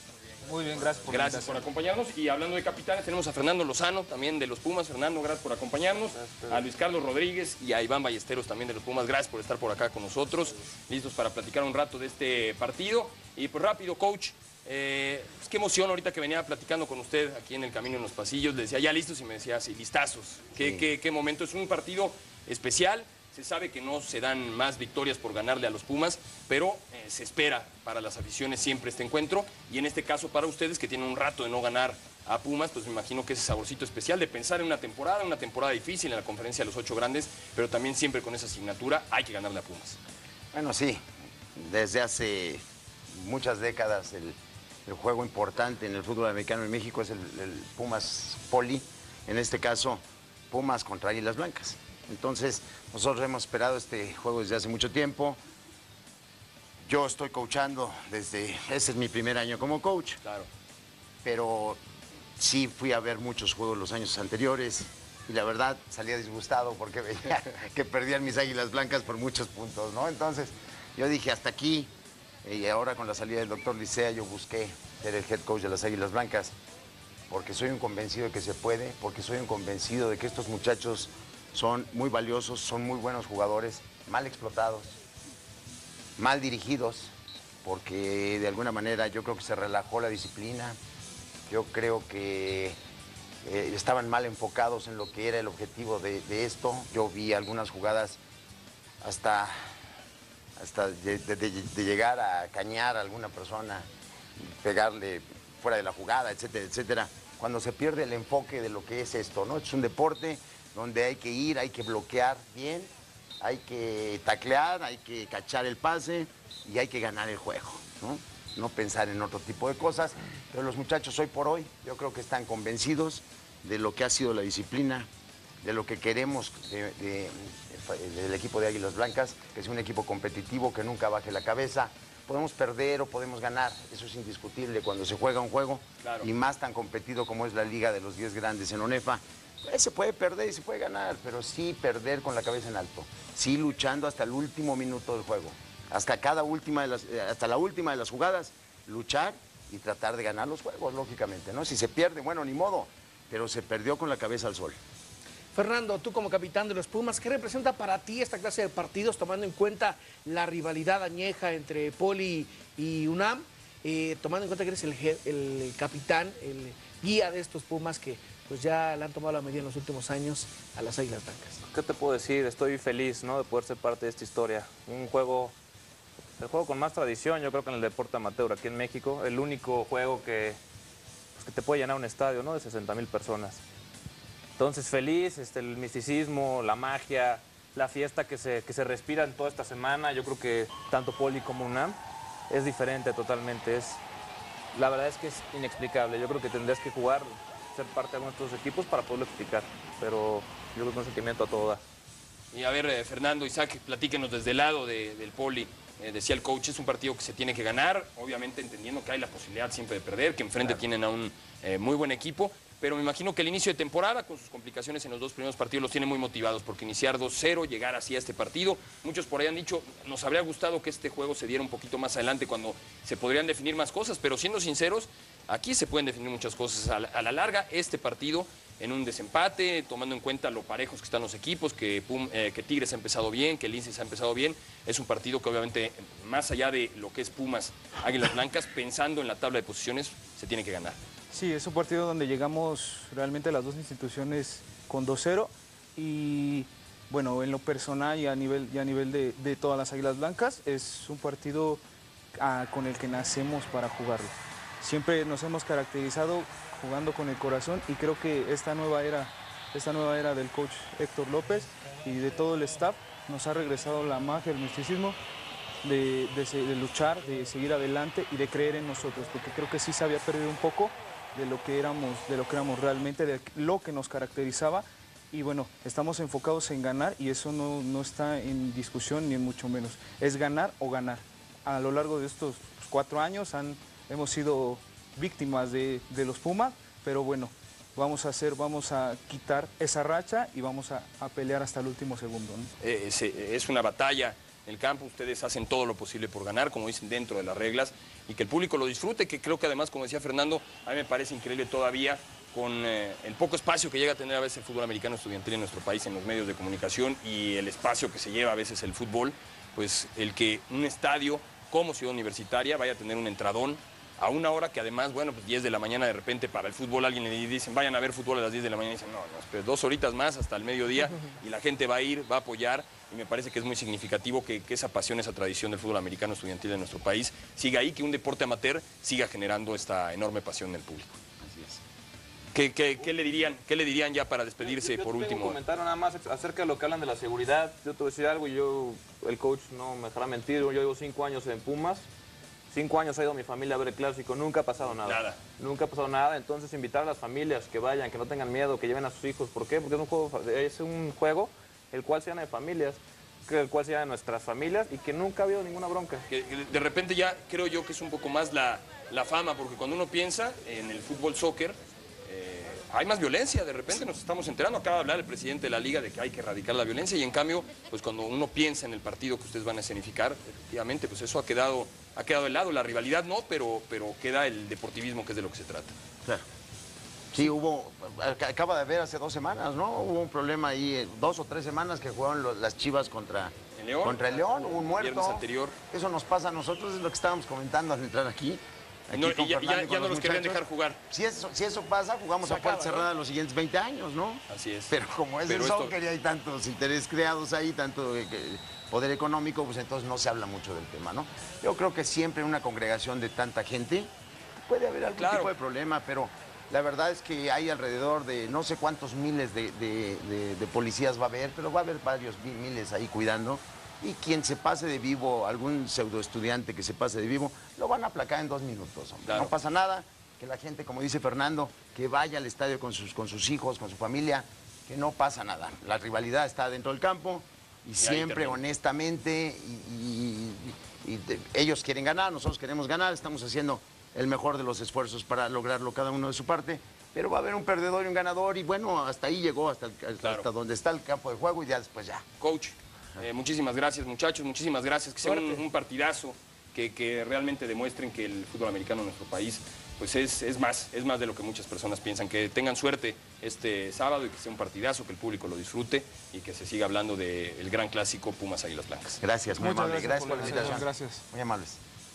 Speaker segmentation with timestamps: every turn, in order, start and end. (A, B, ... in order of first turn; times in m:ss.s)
0:00.4-0:01.6 A
0:01.0-0:40.0 B
0:06.1-0:06.6 C
0:20.6-0:20.9 D
0:40.5-0:41.0 D
0:41.6-0:42.6 D
0:43.1-0:55.4 D
0:56.8-1:00.2 D
1:01.2-1:01.8 D
1:02.4-1:11.9 D
1:12.4-1:16.5 D
1:17.3-1:25.0 D
1:26.2-1:27.1 D
1:27.6-1:30.8 D
1:31.5-1:32.8 D
1:33.4-1:38.2 D
1:39.0-1:39.5 D
1:40.6-1:43.9 D
1:44.4-2:05.1 D
2:05.6-2:34.8 D
2:35.5-2:51.6 E
2:51.7-2:55.6 C
2:56.4-3:00.6 C
3:01.3-3:03.6 C
3:04.6-3:14.0 C
3:14.7-3:21.8 C
3:22.5-4:01.0 B
4:01.3-4:11.8 A
4:12.4-4:25.2 A
4:25.8-4:52.7 A
4:52.8-5:31.2 B
5:31.4-5:31.8 D
5:32.5-5:35.6 B
5:34.6-5:42.1 C
5:42.7-5:56.2 C
5:44.8-5:45.4 B
5:56.3-6:15.9 B
6:17.3-6:44.1 D
6:23.7-6:25.7 B
6:29.1-6:31.0 B
6:32.4-6:33.0 E
6:34.5-6:34.9 B
6:35.5-6:35.9 B
6:44.6-7:22.2 D
6:45.1-6:45.5 B
6:59.2-6:59.5 B
7:08.0-7:08.6 B
7:20.2-7:20.5 B
7:22.4-7:39.2 B
7:25.2-7:25.5 E
7:39.2-7:41.8 D
7:39.6-7:41.2 A